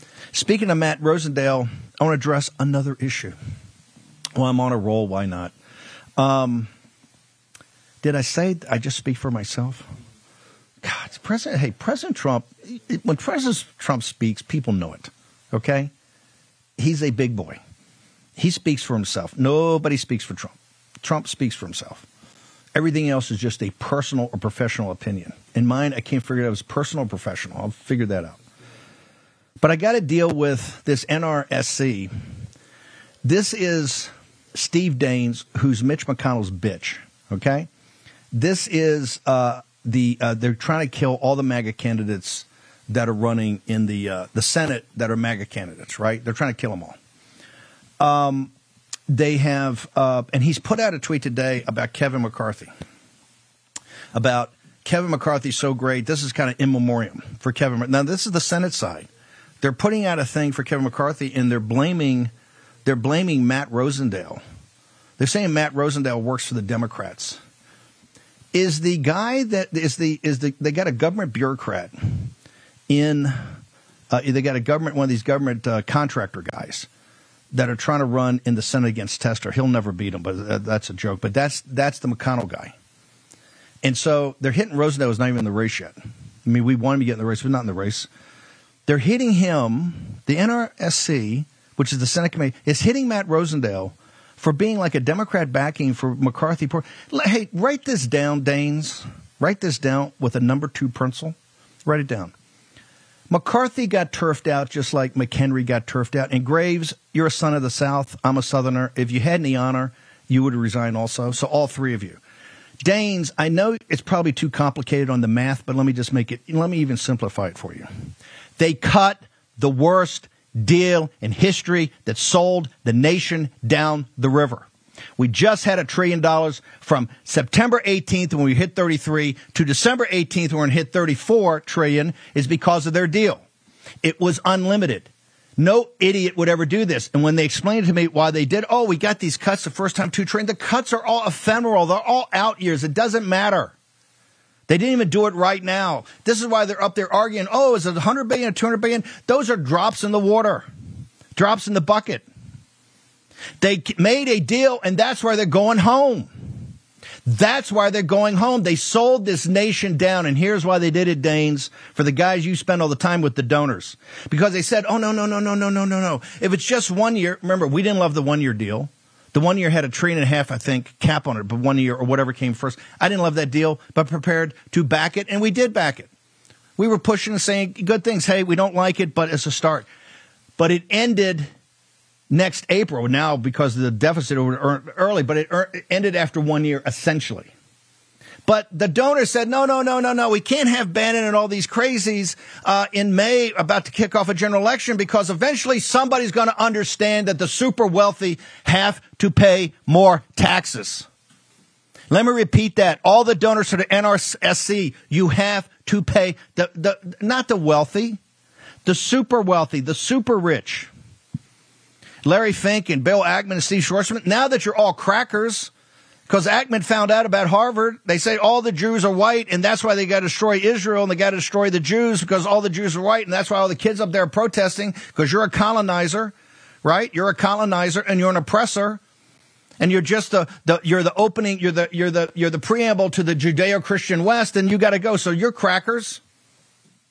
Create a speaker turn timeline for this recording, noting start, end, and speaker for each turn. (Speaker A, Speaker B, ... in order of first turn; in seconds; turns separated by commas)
Speaker A: 0.3-3.4, Speaker A: 4.4-5.5, Speaker A: 6.2-6.7, Speaker A: 8.0-9.9, Speaker A: 10.8-15.9, Speaker A: 16.8-17.6, Speaker A: 18.4-22.1, Speaker A: 22.8-28.4, Speaker A: 29.6-32.1, Speaker A: 33.2-37.7, Speaker A: 38.3-47.0, Speaker A: 48.0-48.5, Speaker A: 49.1-52.7, Speaker A: 54.1-59.1, Speaker A: 59.6-62.3, Speaker A: 62.9-64.4, Speaker A: 65.2-67.4, Speaker A: 68.5-72.3, Speaker A: 72.9-73.5, Speaker A: 74.1-76.9, Speaker A: 77.5-82.7, Speaker A: 83.8-88.1, Speaker A: 88.9-102.3, Speaker A: 103.3-112.2, Speaker A: 112.8-117.9, Speaker A: 118.6-133.4, Speaker A: 134.0-143.7, Speaker A: 144.7-150.7, Speaker A: 151.3-152.2, Speaker A: 153.6-156.7, Speaker A: 157.3-176.1, Speaker A: 176.8-179.9, Speaker A: 180.6-181.5, Speaker A: 182.3-187.5, Speaker A: 188.5-201.1, Speaker A: 202.1-208.2, Speaker A: 208.8-210.9, Speaker A: 212.2-215.7, Speaker A: 216.3-229.0, Speaker A: 229.8-236.2